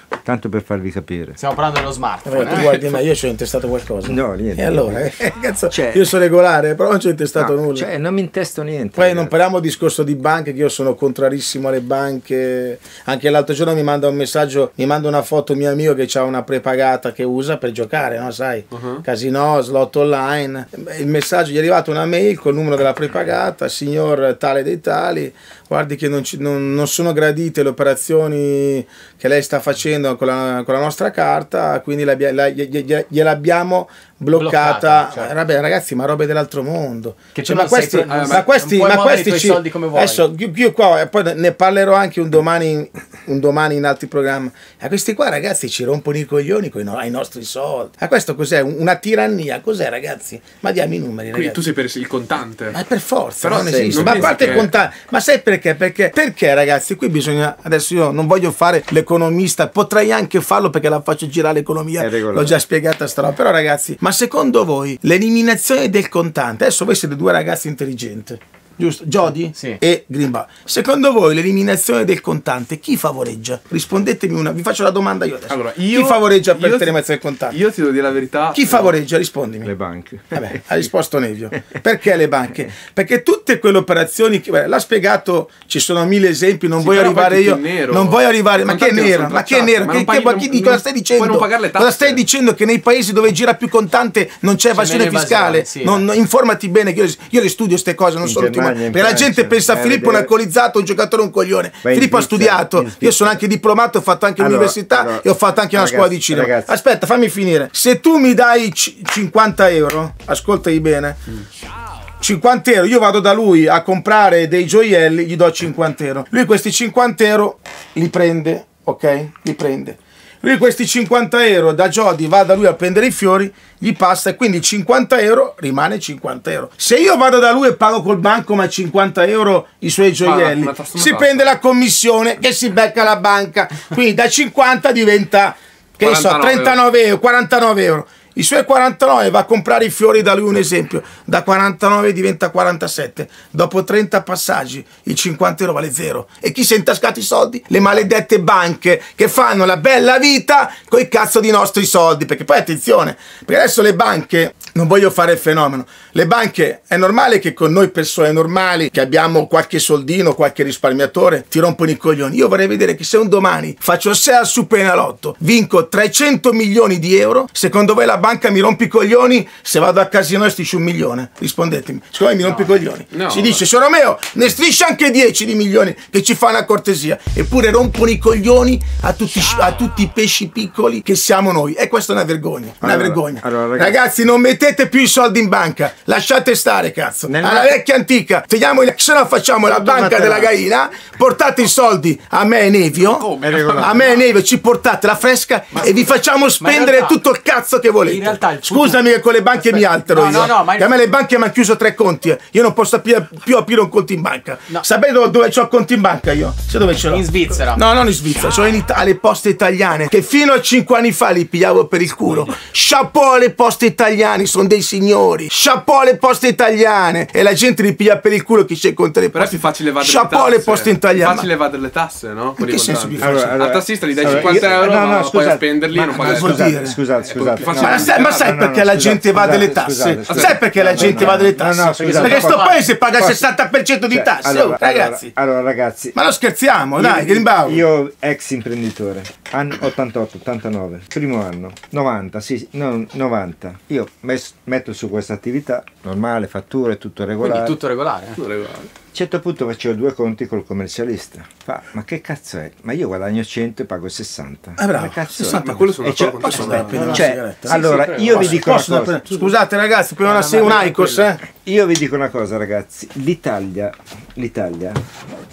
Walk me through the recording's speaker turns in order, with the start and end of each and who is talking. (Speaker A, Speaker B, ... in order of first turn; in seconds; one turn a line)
Speaker A: 0.2-1.4
Speaker B: 1.4-2.7
Speaker C: 2.2-7.9
Speaker D: 2.6-2.8
Speaker A: 4.0-5.1
Speaker A: 5.7-6.1
Speaker A: 7.3-9.3
Speaker C: 8.9-51.6
Speaker D: 18.7-19.0
Speaker B: 34.3-35.3
Speaker B: 37.3-40.2
Speaker D: 38.1-38.4
Speaker D: 51.3-52.8
Speaker C: 52.7-77.6
Speaker D: 53.4-54.7
Speaker A: 53.4-54.7
Speaker A: 62.0-62.5
Speaker B: 69.5-69.8
Speaker D: 75.5-77.0
Speaker D: 77.5-78.9
Speaker C: 78.5-79.7
Speaker A: 79.6-80.9
Speaker C: 80.3-111.2
Speaker D: 86.8-92.2
Speaker B: 94.7-96.0
Speaker A: 98.2-100.3
Speaker A: 101.8-103.4
Speaker A: 104.4-106.7
Speaker C: 112.2-221.5
Speaker D: 130.2-131.5
Speaker D: 136.0-136.8
Speaker B: 172.5-172.8
Speaker D: 173.1-173.6
Speaker A: 182.8-184.0
Speaker A: 187.3-187.7
Speaker A: 189.8-190.5
Speaker B: 189.9-190.4
Speaker D: 193.0-194.2
Speaker A: 193.4-194.1
Speaker B: 195.7-197.2
Speaker B: 198.0-199.0
Speaker B: 199.5-200.9
Speaker B: 207.1-207.8
Speaker D: 219.3-228.5
Speaker C: 222.6-223.6
Speaker A: 223.2-233.4
Speaker C: 224.3-224.7
Speaker C: 225.9-227.0
Speaker C: 227.8-235.3
Speaker D: 230.3-230.6
Speaker B: 230.9-232.9
Speaker A: 234.1-236.2
Speaker C: 236.1-237.8
Speaker A: 237.0-247.8
Speaker B: 247.4-248.4
Speaker D: 248.4-248.9
Speaker A: 249.1-259.4
Speaker C: 254.8-261.4
Speaker D: 255.4-257.2
Speaker B: 256.9-258.7
Speaker B: 260.2-261.3
Speaker A: 261.6-265.0